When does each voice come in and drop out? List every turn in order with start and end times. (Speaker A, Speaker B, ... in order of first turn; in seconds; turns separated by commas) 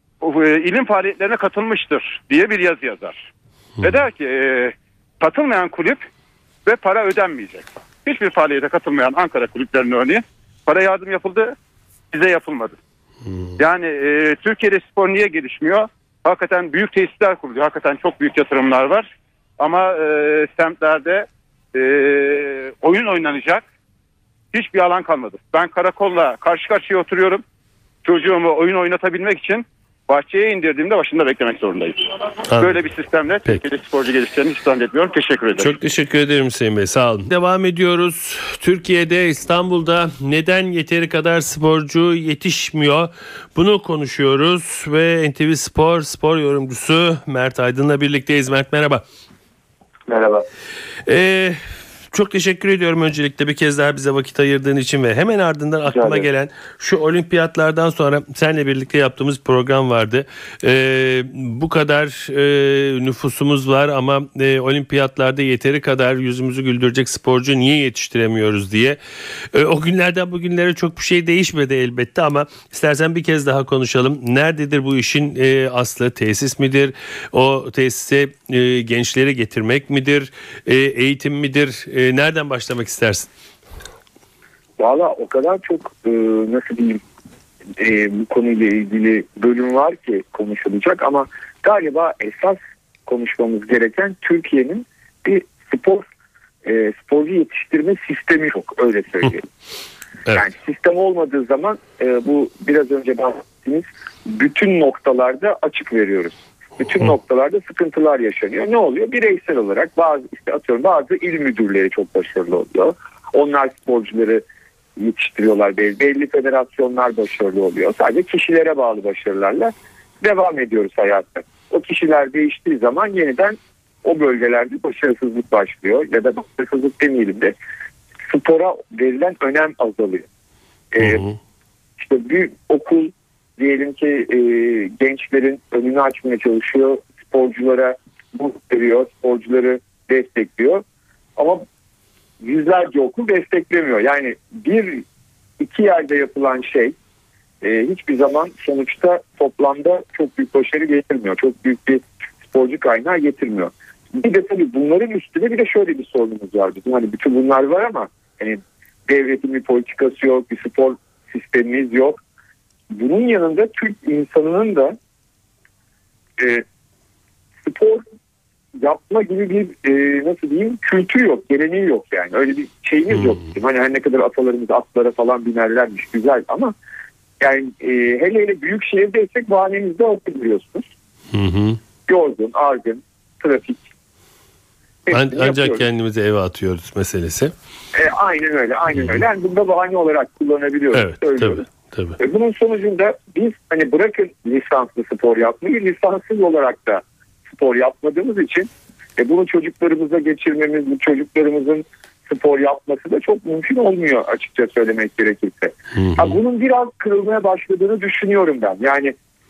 Speaker A: 0.2-3.3, Speaker A: 3.8-6.0, Speaker A: 6.7-11.6, Speaker A: 12.1-12.8, Speaker B: 13.3-13.5, Speaker A: 13.6-23.6, Speaker A: 24.5-27.4, Speaker A: 28.0-35.7, Speaker B: 32.5-32.8, Speaker B: 35.6-49.0, Speaker C: 50.1-50.4, Speaker B: 51.1-51.6, Speaker B: 52.1-69.0, Speaker C: 55.9-56.3, Speaker B: 69.5-83.3, Speaker C: 84.8-87.0, Speaker C: 87.8-96.0, Speaker C: 96.7-99.5, Speaker C: 100.3-114.4, Speaker C: 115.0-127.5, Speaker C: 128.3-130.3, Speaker C: 130.9-131.2, Speaker B: 131.0-131.4, Speaker C: 132.0-140.8, Speaker C: 141.4-141.6, Speaker C: 142.4-145.0, Speaker C: 145.6-146.9, Speaker C: 147.6-162.2, Speaker C: 162.9-165.0, Speaker C: 166.4-166.6, Speaker C: 167.6-168.0, Speaker C: 168.8-176.7, Speaker C: 177.4-180.9, Speaker B: 181.3-181.8, Speaker C: 182.1-183.9, Speaker C: 185.1-185.8, Speaker B: 185.1-187.5, Speaker C: 187.9-191.7, Speaker B: 188.9-189.2, Speaker B: 190.9-192.2, Speaker C: 192.2-209.2, Speaker B: 205.9-206.4